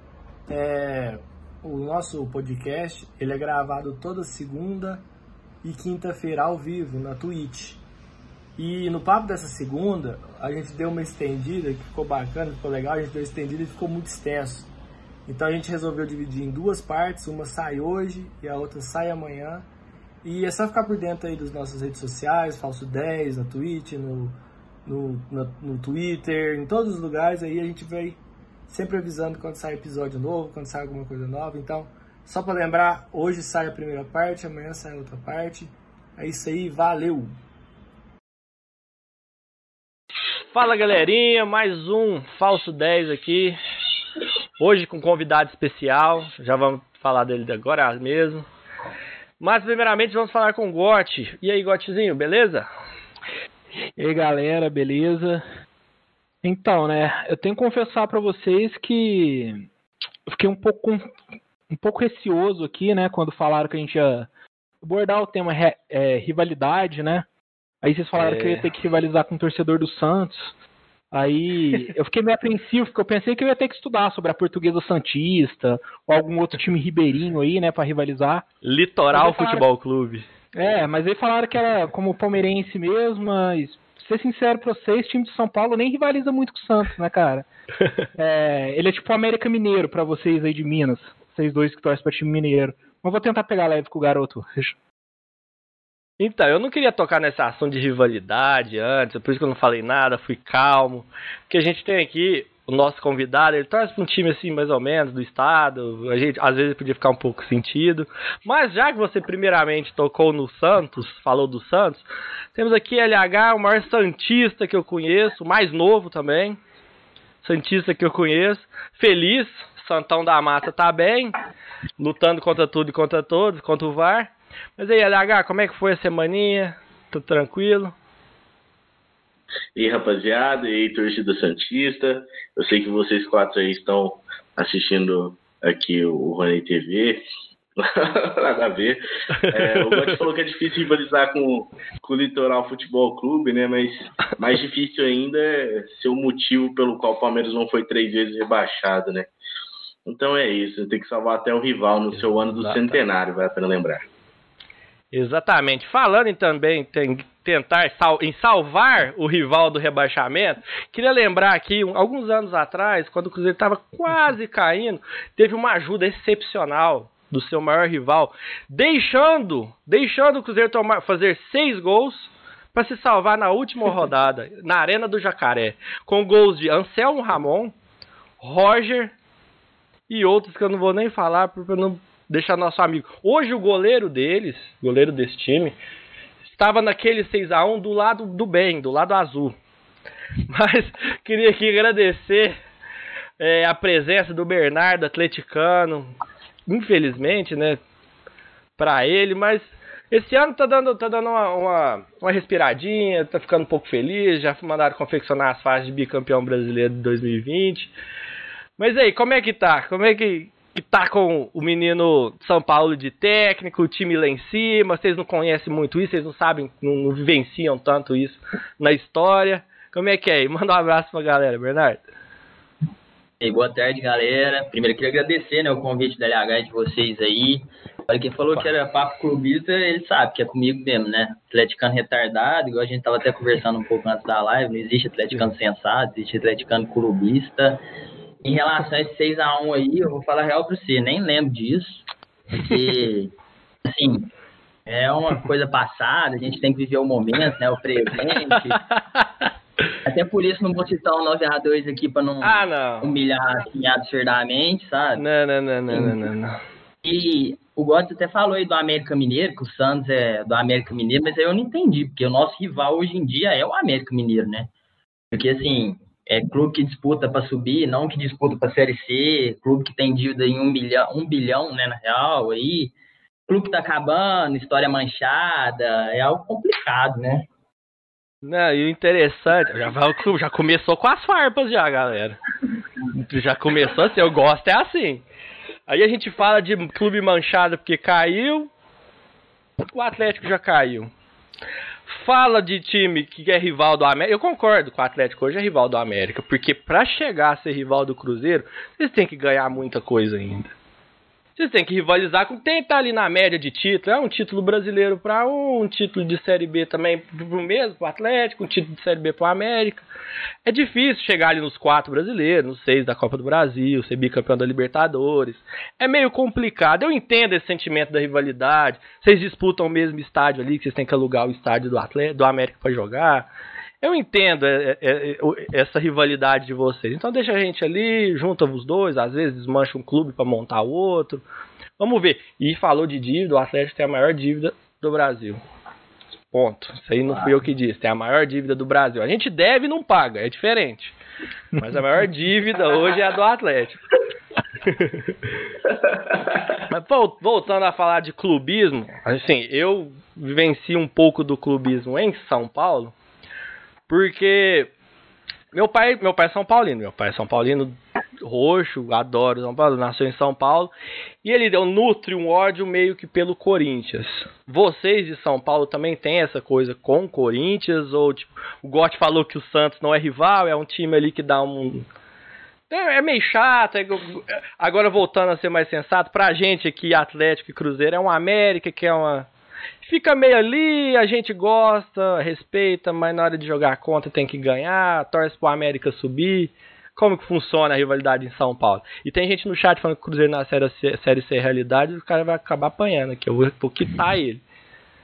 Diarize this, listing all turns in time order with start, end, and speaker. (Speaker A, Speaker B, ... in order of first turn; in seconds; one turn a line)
Speaker A: 0.5-5.0
Speaker A: 5.6-7.8
Speaker A: 8.6-14.7
Speaker A: 15.3-19.7
Speaker A: 20.2-24.4
Speaker A: 24.9-37.4
Speaker B: 40.5-43.6
Speaker B: 44.6-48.5
Speaker B: 49.4-52.7
Speaker C: 54.0-55.4
Speaker C: 56.4-59.6
Speaker C: 60.3-61.1
Speaker C: 61.7-64.3
Speaker C: 64.8-67.3
Speaker C: 67.8-70.5
Speaker B: 68.2-68.7
Speaker C: 71.1-78.5
Speaker B: 78.6-80.3
Speaker C: 79.1-79.7
Speaker C: 80.5-87.5
Speaker C: 88.2-94.8
Speaker B: 96.2-112.0
Speaker B: 112.5-116.6
Speaker B: 117.4-121.4
Speaker B: 122.0-127.9
Speaker D: 129.8-137.2
Speaker D: 137.8-149.3
Speaker B: 139.5-140.2
Speaker D: 150.1-154.1
Speaker B: 152.1-153.0
Speaker B: 155.1-177.7
Speaker B: 178.4-179.1
Speaker B: 180.1-185.8
Speaker B: 186.5-189.6
Speaker B: 190.5-192.5
Speaker B: 193.4-196.1
Speaker B: 196.7-197.8
Speaker B: 198.8-207.9
Speaker B: 208.8-222.0
Speaker E: 223.4-237.8
Speaker E: 238.4-243.3
Speaker E: 243.8-244.3
Speaker E: 244.9-248.8
Speaker B: 248.8-249.5
Speaker E: 250.1-255.2
Speaker B: 252.4-253.1
Speaker B: 255.2-256.6
Speaker E: 255.9-256.2
Speaker E: 257.0-264.7
Speaker E: 265.3-272.9
Speaker E: 273.5-277.5
Speaker B: 278.4-282.4
Speaker B: 283.1-285.2
Speaker B: 285.9-288.7
Speaker B: 289.9-291.1
Speaker B: 292.1-300.7
Speaker B: 301.6-310.1
Speaker B: 310.7-323.5
Speaker B: 324.0-331.4
Speaker B: 332.0-335.6
Speaker B: 336.5-341.1
Speaker E: 337.3-337.5
Speaker B: 341.8-344.0
Speaker B: 344.8-345.3
Speaker B: 346.9-353.1
Speaker B: 354.1-354.9
Speaker B: 355.7-360.9
Speaker B: 361.4-372.1
Speaker B: 372.9-379.5
Speaker B: 380.0-394.6